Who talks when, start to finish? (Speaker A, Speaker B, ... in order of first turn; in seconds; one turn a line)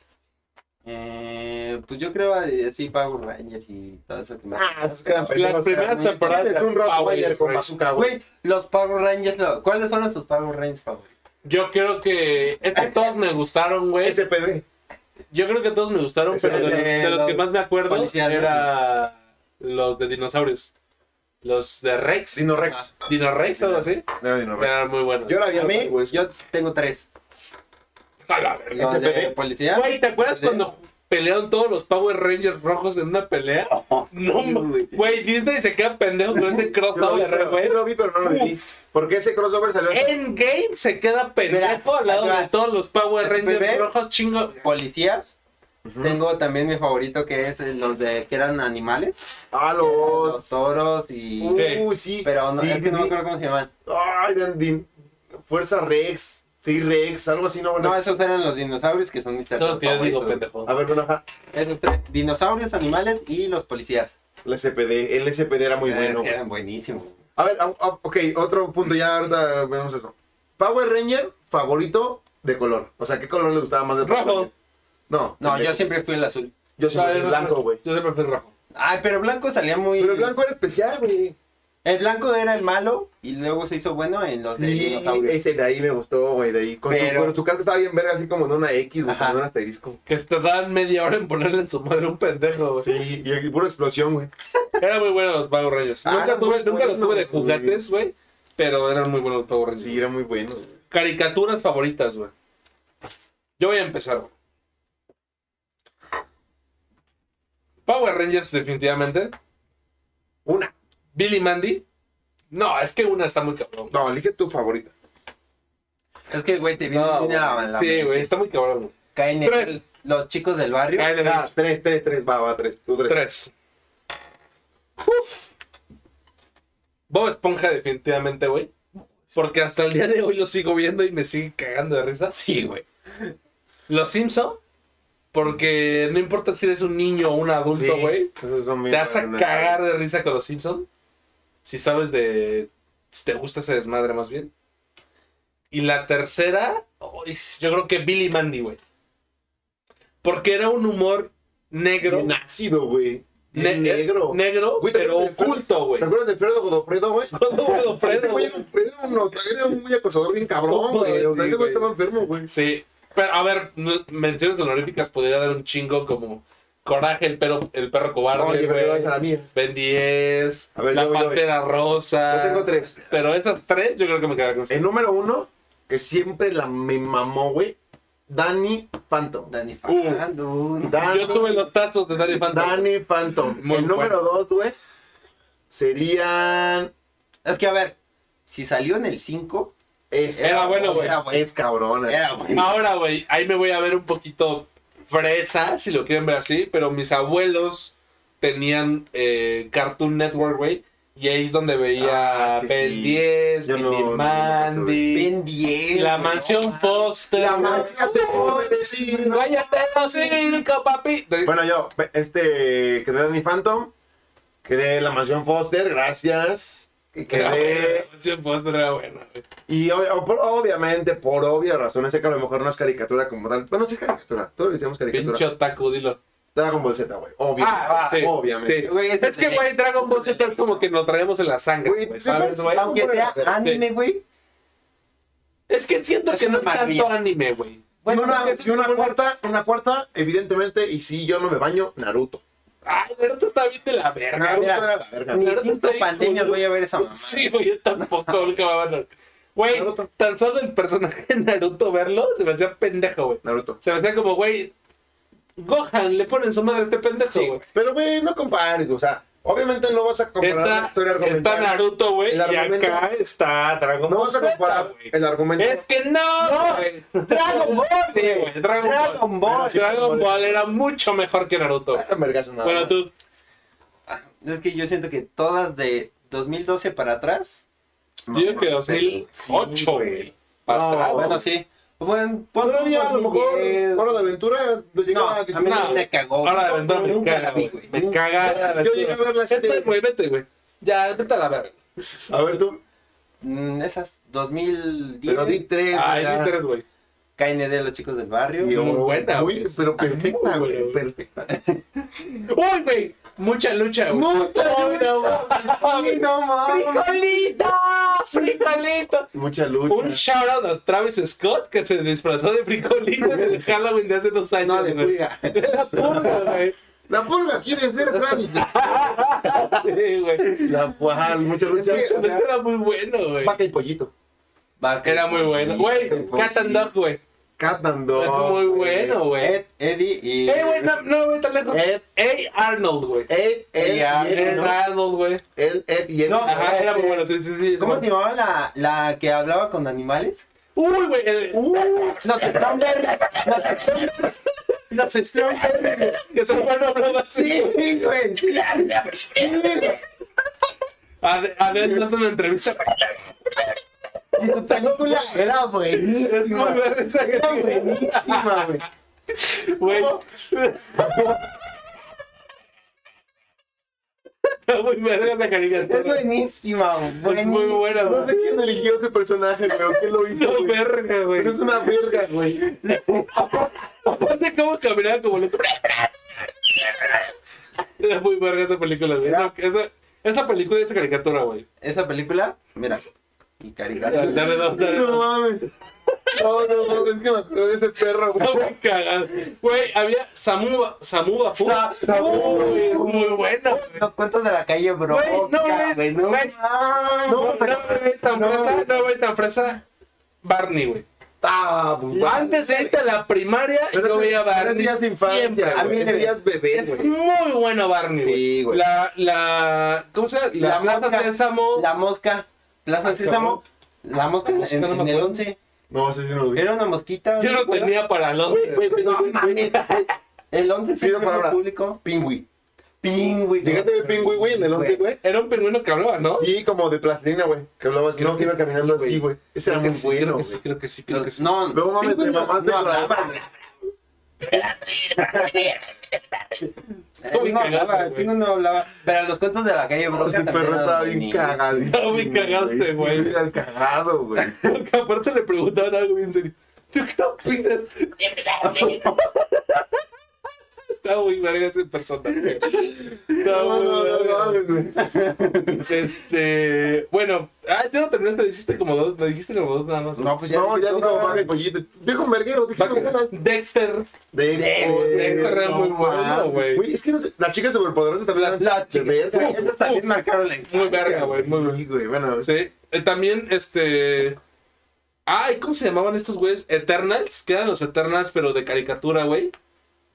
Speaker A: 0.8-5.4
Speaker B: 4.5-8.1
Speaker C: 5.3-7.7
Speaker A: 7.9-11.1
Speaker C: 11.4-14.2
Speaker B: 14.0-14.7
Speaker C: 15.3-20.7
Speaker B: 16.3-17.0
Speaker A: 16.4-18.7
Speaker C: 21.4-24.1
Speaker B: 22.3-22.9
Speaker A: 23.6-23.9
Speaker B: 24.2-26.2
Speaker C: 24.6-25.5
Speaker A: 25.5-27.1
Speaker C: 28.3-28.9
Speaker A: 28.7-30.6
Speaker B: 28.8-29.4
Speaker C: 29.7-38.6
Speaker B: 34.4-35.0
Speaker B: 36.9-40.1
Speaker C: 39.9-44.6
Speaker A: 41.5-42.5
Speaker A: 43.2-43.9
Speaker A: 44.6-45.4
Speaker B: 45.9-46.2
Speaker A: 46.0-49.2
Speaker B: 49.5-50.4
Speaker A: 49.8-51.7
Speaker B: 51.4-53.2
Speaker C: 51.5-51.9
Speaker A: 52.2-53.7
Speaker B: 53.9-58.2
Speaker A: 57.8-60.4
Speaker C: 59.6-60.7
Speaker B: 60.7-61.2
Speaker A: 61.5-64.2
Speaker B: 64.5-66.3
Speaker A: 65.8-67.2
Speaker B: 67.4-74.5
Speaker C: 74.0-74.5
Speaker B: 75.1-75.9
Speaker A: 75.4-76.5
Speaker B: 76.8-77.8
Speaker C: 76.9-78.5
Speaker A: 78.7-80.3
Speaker B: 80.0-81.4
Speaker A: 81.8-85.4
Speaker B: 84.6-90.0
Speaker A: 86.9-87.4
Speaker A: 89.0-89.4
Speaker C: 90.1-93.0
Speaker B: 92.8-94.3
Speaker C: 94.8-100.0
Speaker B: 96.0-97.8
Speaker B: 99.8-100.7
Speaker C: 100.9-102.3
Speaker C: 103.6-104.3
Speaker C: 107.9-109.3
Speaker B: 110.5-110.7
Speaker C: 111.2-111.8
Speaker C: 112.5-113.9
Speaker B: 113.9-114.9
Speaker A: 116.3-118.3
Speaker C: 116.9-119.8
Speaker A: 119.2-121.1
Speaker C: 121.0-121.5
Speaker B: 121.2-123.2
Speaker C: 123.1-123.5
Speaker C: 127.1-128.7
Speaker C: 129.3-132.4
Speaker A: 132.3-133.3
Speaker C: 133.9-134.6
Speaker C: 135.3-138.3
Speaker B: 137.7-139.8
Speaker C: 138.9-140.9
Speaker C: 141.7-144.5
Speaker C: 145.7-148.8
Speaker C: 150.2-152.3
Speaker B: 152.0-162.5
Speaker C: 153.5-156.1
Speaker C: 157.3-158.6
Speaker C: 160.7-161.9
Speaker C: 162.5-174.8
Speaker B: 168.3-169.5
Speaker B: 170.8-171.4
Speaker B: 172.3-173.0
Speaker B: 174.7-177.8
Speaker B: 178.3-179.5
Speaker A: 179.5-181.5
Speaker C: 179.9-180.2
Speaker B: 180.9-181.7
Speaker C: 181.0-182.9
Speaker B: 182.4-184.8
Speaker C: 183.6-184.2
Speaker B: 185.7-186.9
Speaker A: 187.4-188.0
Speaker A: 188.5-189.7
Speaker B: 190.1-192.2
Speaker A: 190.3-191.5
Speaker C: 190.4-191.2
Speaker A: 192.1-192.8
Speaker C: 192.5-205.3
Speaker B: 202.0-205.0
Speaker A: 205.1-210.4
Speaker C: 205.9-208.6
Speaker B: 207.4-209.5
Speaker C: 209.3-211.5
Speaker B: 211.4-213.9
Speaker B: 214.6-218.1
Speaker C: 217.3-219.4
Speaker B: 219.7-225.4
Speaker C: 225.1-226.2
Speaker B: 226.6-228.9
Speaker C: 227.6-233.8
Speaker A: 227.8-228.3
Speaker A: 228.8-230.8
Speaker B: 231.8-233.6
Speaker A: 232.3-234.2
Speaker C: 235.7-239.2
Speaker A: 236.3-237.2
Speaker A: 238.0-238.6
Speaker B: 238.1-242.4
Speaker C: 242.8-244.8
Speaker B: 244.3-245.4
Speaker A: 244.6-248.4
Speaker C: 245.3-254.7
Speaker B: 249.7-250.1
Speaker B: 253.4-253.8
Speaker C: 255.6-257.6
Speaker B: 257.7-263.1
Speaker C: 260.4-272.1
Speaker B: 264.1-265.9
Speaker A: 266.4-270.0
Speaker B: 269.4-270.7
Speaker B: 271.9-273.0
Speaker C: 272.6-273.1
Speaker A: 274.1-277.7
Speaker A: 278.3-279.2
Speaker C: 278.3-281.4
Speaker B: 279.3-281.4
Speaker A: 281.1-284.2
Speaker B: 282.6-286.1
Speaker A: 285.1-287.9
Speaker C: 285.6-291.8
Speaker B: 287.9-289.9
Speaker B: 292.3-292.8
Speaker A: 293.4-295.6
Speaker B: 295.3-296.5
Speaker C: 295.9-296.8
Speaker A: 297.4-298.8
Speaker B: 298.5-301.5
Speaker C: 298.6-301.0
Speaker A: 301.5-302.1
Speaker C: 302.5-309.3
Speaker B: 304.1-307.1
Speaker A: 304.2-307.2
Speaker B: 309.3-310.2
Speaker C: 309.9-316.8
Speaker A: 313.3-313.6
Speaker A: 314.6-316.6
Speaker B: 317.1-319.2
Speaker C: 318.1-320.6
Speaker A: 319.5-319.9
Speaker A: 320.4-320.8
Speaker B: 320.6-322.4
Speaker A: 321.5-322.4
Speaker C: 321.8-323.6
Speaker B: 323.4-324.1
Speaker A: 324.8-326.4
Speaker C: 325.1-327.2
Speaker B: 325.8-326.9
Speaker B: 327.6-329.2
Speaker C: 328.1-329.6
Speaker A: 329.4-330.9
Speaker C: 330.5-333.3
Speaker B: 331.7-332.0
Speaker B: 333.3-334.8
Speaker A: 333.8-334.7
Speaker C: 334.3-335.4
Speaker B: 335.6-336.7
Speaker A: 336.3-340.5
Speaker C: 336.4-338.1
Speaker C: 340.8-344.3
Speaker A: 341.6-344.3
Speaker A: 344.9-350.0
Speaker C: 345.3-348.0
Speaker C: 348.6-349.9
Speaker C: 351.2-353.8
Speaker A: 351.7-352.0
Speaker A: 354.4-358.8
Speaker C: 354.4-355.5
Speaker C: 356.0-361.5
Speaker B: 359.9-360.2
Speaker B: 360.9-361.4
Speaker C: 364.7-366.2
Speaker A: 365.8-368.6
Speaker C: 367.2-368.3
Speaker B: 368.0-372.6
Speaker C: 370.3-371.6
Speaker A: 372.3-373.5
Speaker C: 373.3-376.1
Speaker C: 376.6-377.2
Speaker C: 378.0-381.6
Speaker A: 379.2-379.5
Speaker A: 381.8-383.0
Speaker A: 383.6-384.7
Speaker C: 384.1-385.3
Speaker B: 384.1-385.7
Speaker B: 386.3-388.7
Speaker C: 388.4-394.0
Speaker A: 391.6-397.8
Speaker B: 391.9-393.1
Speaker C: 395.1-396.5
Speaker B: 397.3-398.9
Speaker C: 397.3-399.9
Speaker C: 400.4-401.1
Speaker B: 401.4-402.5
Speaker A: 402.1-403.0
Speaker C: 402.2-406.1
Speaker B: 403.9-407.1
Speaker A: 405.7-406.4
Speaker C: 406.7-411.9
Speaker B: 408.2-408.8
Speaker A: 410.5-415.6
Speaker C: 413.1-413.6
Speaker C: 414.4-415.4
Speaker B: 415.9-416.6
Speaker A: 416.6-418.0
Speaker C: 417.4-420.1
Speaker B: 418.5-420.1
Speaker A: 418.8-419.9
Speaker A: 420.5-422.0
Speaker B: 421.0-422.5
Speaker A: 423.0-425.1
Speaker B: 423.6-425.2
Speaker C: 425.2-426.5
Speaker B: 426.4-430.6
Speaker C: 428.1-431.5
Speaker A: 431.1-433.5
Speaker B: 431.7-433.4
Speaker C: 434.4-435.8
Speaker A: 435.2-435.8
Speaker C: 436.5-438.3
Speaker A: 437.2-441.9
Speaker B: 440.1-444.6
Speaker C: 441.9-443.4
Speaker C: 444.4-450.0
Speaker A: 448.6-449.2
Speaker C: 451.0-454.7
Speaker A: 452.6-453.0
Speaker B: 453.3-455.1
Speaker A: 455.0-455.9
Speaker C: 455.8-460.3
Speaker A: 460.2-461.5
Speaker B: 460.5-463.4
Speaker C: 462.8-464.1
Speaker B: 464.3-465.6
Speaker A: 464.5-466.7
Speaker C: 464.9-466.9
Speaker B: 466.7-469.6
Speaker A: 468.3-471.4
Speaker C: 469.3-470.1
Speaker C: 470.7-471.8
Speaker B: 471.0-472.5
Speaker C: 472.4-474.4
Speaker C: 475.3-479.5